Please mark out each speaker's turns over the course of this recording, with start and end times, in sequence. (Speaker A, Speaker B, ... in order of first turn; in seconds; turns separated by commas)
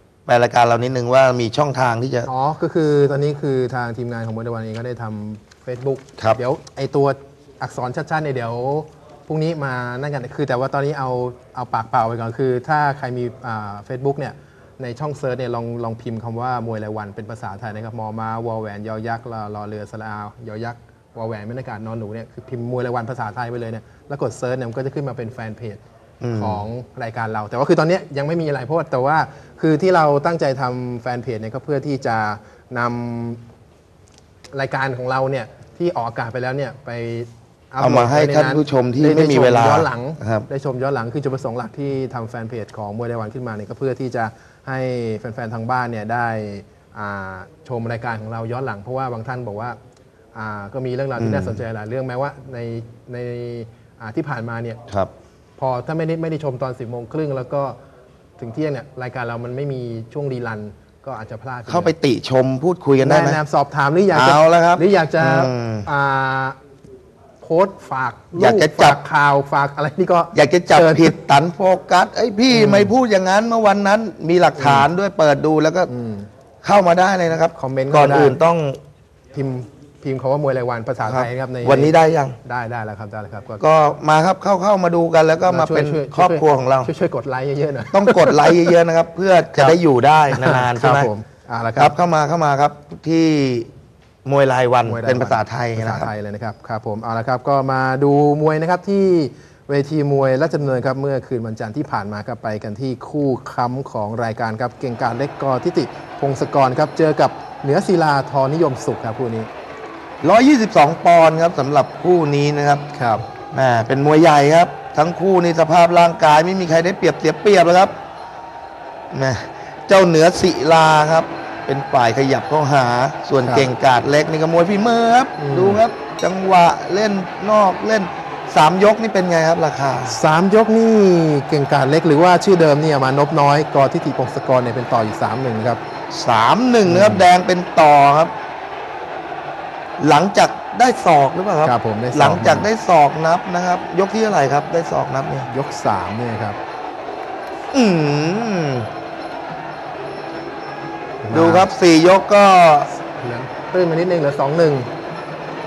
Speaker A: 0.3-2.3, Speaker B: 2.3-25.8, Speaker A: 26.2-26.6, Speaker B: 26.3-33.4, Speaker B: 34.5-49.8, Speaker A: 37.8-40.5, Speaker B: 50.3-54.8, Speaker A: 51.2-51.6, Speaker B: 55.6-57.8, Speaker B: 58.4-61.9, Speaker A: 61.7-63.4, Speaker B: 63.0-66.5, Speaker A: 64.1-65.9, Speaker B: 67.4-71.2, Speaker A: 68.3-69.0, Speaker A: 70.3-75.9, Speaker B: 72.5-72.9, Speaker B: 74.5-74.9, Speaker B: 75.9-76.3, Speaker A: 76.6-78.8, Speaker B: 77.5-78.4, Speaker B: 79.3-83.6, Speaker A: 81.0-82.4, Speaker A: 83.6-86.9, Speaker B: 85.5-88.7, Speaker A: 87.9-91.1, Speaker B: 90.3-91.9, Speaker A: 91.8-93.7, Speaker A: 94.2-96.1, Speaker B: 94.8-109.5, Speaker A: 110.2-112.8, Speaker B: 112.9-113.2, Speaker A: 113.5-117.9, Speaker A: 119.1-130.1, Speaker B: 123.4-123.7, Speaker B: 125.4-125.8, Speaker B: 130.1-135.8, Speaker A: 136.1-138.3, Speaker B: 136.8-137.3, Speaker A: 140.0-145.5, Speaker B: 141.6-142.7, Speaker B: 145.4-146.6, Speaker A: 147.7-148.9, Speaker B: 151.2-151.7, Speaker A: 151.3-152.9, Speaker B: 152.9-154.9